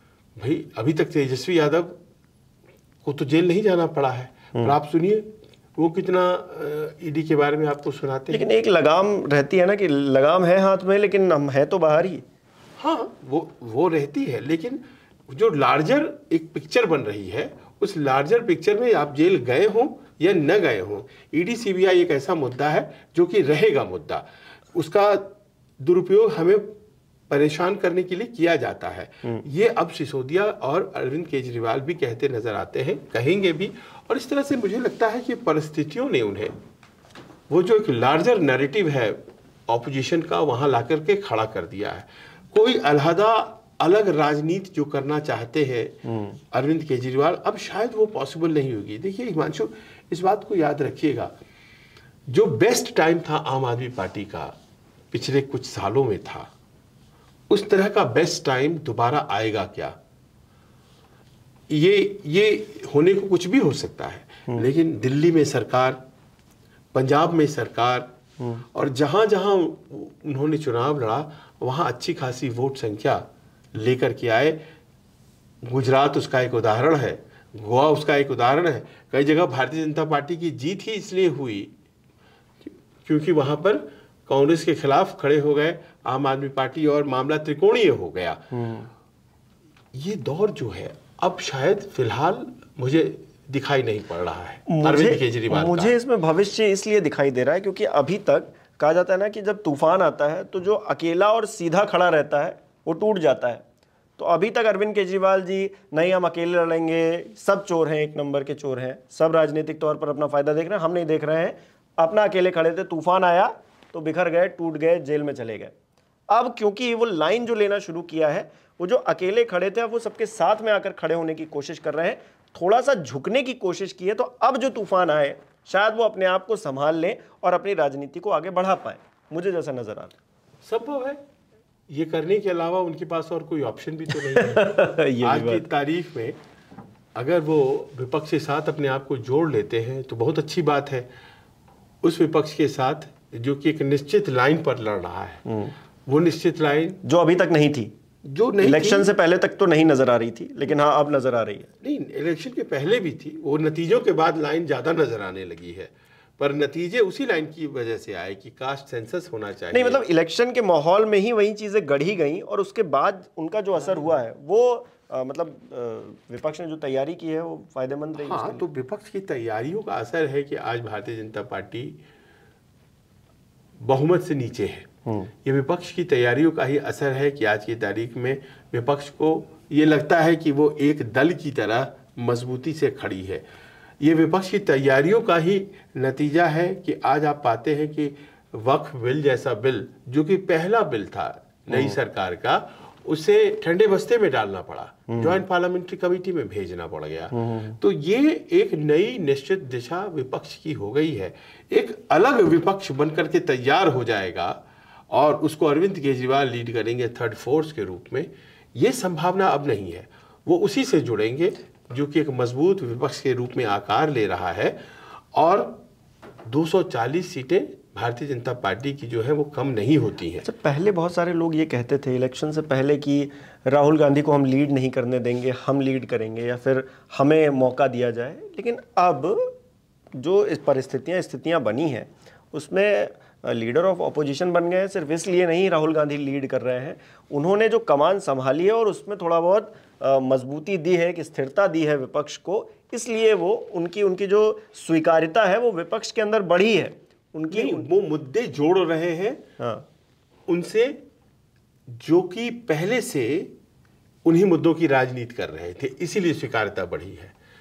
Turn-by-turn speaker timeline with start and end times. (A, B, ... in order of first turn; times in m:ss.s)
0:00.4-0:02.0 A
0:03.0-0:08.5 A
0:08.3-0:12.2 B
0:12.8-0:26.7 A
0:27.3-0:36.5 A
0:37.5-0:46.0 A
0:46.0-0:46.4 B
0:46.5-0:51.3 A
0:52.3-0:54.6 A
0:55.1-0:56.5 A
0:57.5-1:00.0 A
1:01.7-1:06.0 A
1:06.9-1:08.1 A
1:08.4-1:08.6 B
1:08.7-1:14.6 A
1:15.6-1:21.7 A
1:22.6-1:28.5 A
1:28.5-1:28.9 B
1:29.9-1:35.9 A
1:34.7-1:43.6 B
1:44.2-1:55.7 B
1:56.3-2:10.1 B
2:10.6-2:11.2 A
2:11.9-2:16.4 A
2:14.1-2:15.6 B
2:17.2-2:21.1 A
2:22.0-2:25.4 A
2:25.5-2:25.7 B
2:26.1-2:27.0 A
2:27.0-2:27.9 B
2:28.2-2:29.1 A
2:28.6-2:31.7 B
2:31.8-2:40.0 A
2:39.7-2:48.6 B
2:48.2-2:52.0 A
2:53.8-2:54.9 A
2:55.1-2:55.3 B
2:55.4-3:03.4 A
3:04.0-3:24.6 A
3:11.7-3:12.0 B
3:15.1-3:15.4 B
3:17.3-3:17.8 B
3:25.1-3:34.8 A
3:35.3-3:35.8 A
3:36.5-3:40.4 A
3:40.4-3:49.5 B
3:50.2-4:07.9 B
4:07.5-4:09.4 A
4:09.6-4:09.9 B
4:10.5-4:11.0 A
4:11.9-4:13.5 A
4:14.2-4:17.3 A